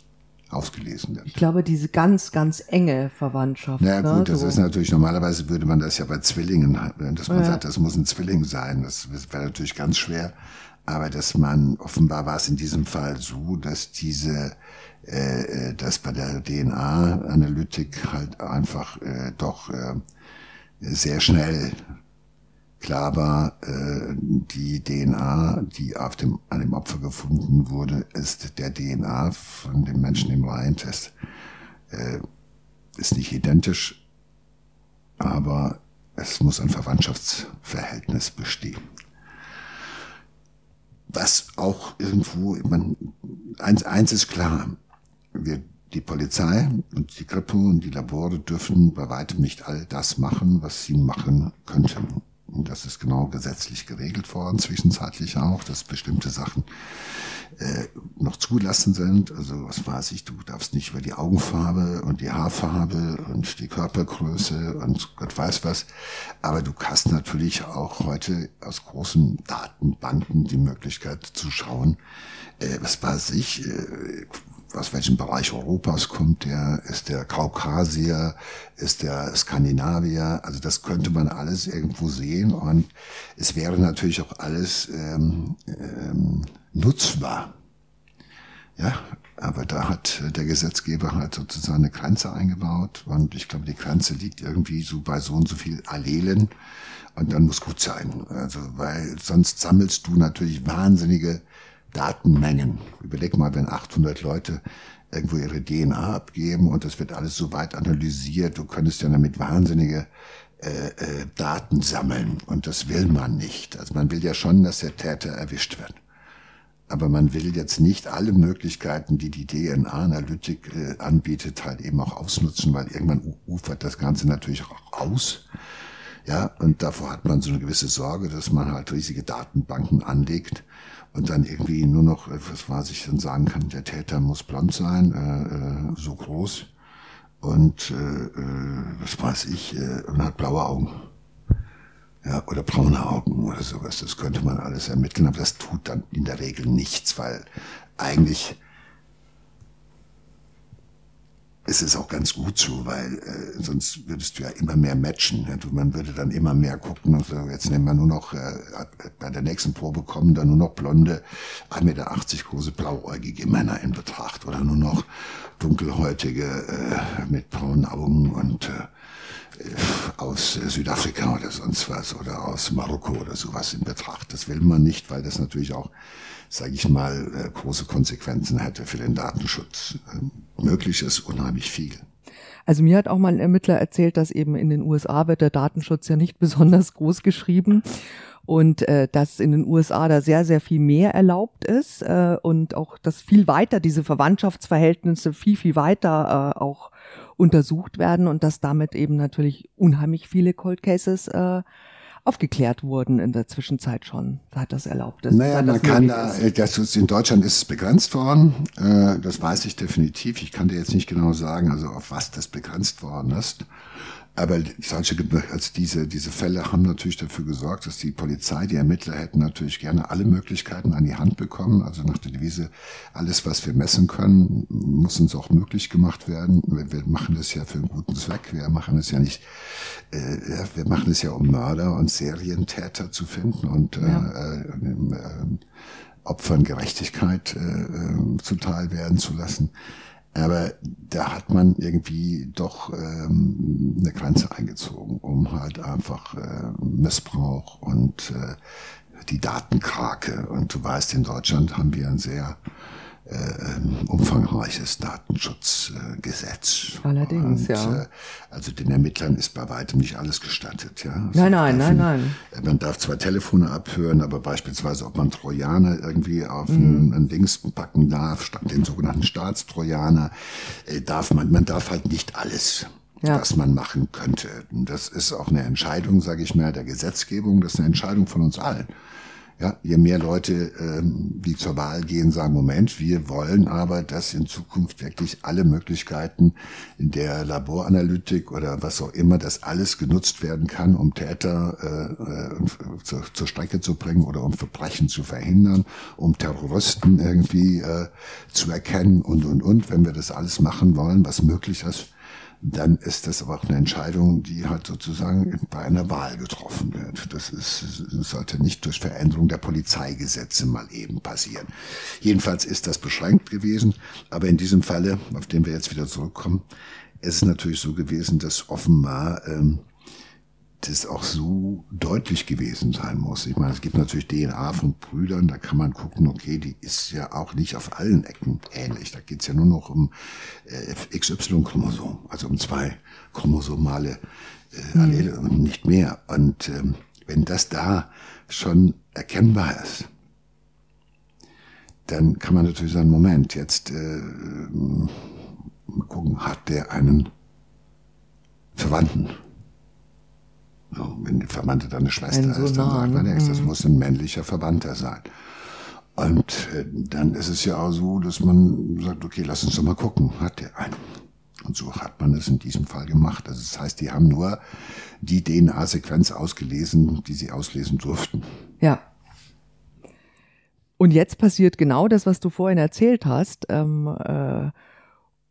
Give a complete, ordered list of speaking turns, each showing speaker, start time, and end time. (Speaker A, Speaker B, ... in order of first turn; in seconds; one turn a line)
Speaker A: 0.5-1.4
Speaker B: 1.3-4.6
Speaker A: 3.8-10.3
Speaker B: 7.3-7.6
Speaker A: 10.8-20.0
Speaker A: 20.8-21.8
Speaker A: 22.8-31.1
Speaker A: 31.9-32.2
Speaker A: 33.0-34.0
Speaker A: 35.2-38.8
Speaker A: 41.1-44.8
Speaker A: 45.3-72.0
Speaker A: 72.6-87.5
Speaker A: 88.8-96.5
Speaker A: 97.1-110.1
Speaker A: 110.6-116.0
Speaker A: 116.9-125.5
Speaker A: 126.2-136.7
Speaker A: 137.4-141.1
Speaker A: 142.2-147.4
Speaker A: 148.0-148.6
Speaker A: 151.7-175.9
Speaker A: 176.5-182.0
Speaker B: 182.7-187.9
Speaker B: 188.5-201.6
Speaker B: 202.2-206.4
Speaker A: 205.3-213.7
Speaker A: 214.3-235.6
Speaker B: 234.0-234.3
Speaker A: 236.2-239.7
Speaker A: 240.3-248.6
Speaker A: 249.2-252.6
Speaker A: 253.2-278.9
Speaker B: 257.0-258.0
Speaker B: 261.3-262.4
Speaker B: 266.7-267.1
Speaker A: 279.6-316.6
Speaker A: 317.2-319.9
Speaker A: 320.8-334.2
Speaker A: 334.7-340.1
Speaker B: 334.9-335.2
Speaker A: 342.1-347.3
Speaker A: 348.8-349.4
Speaker A: 350.9-368.6
Speaker B: 352.3-353.7
Speaker B: 371.0-374.7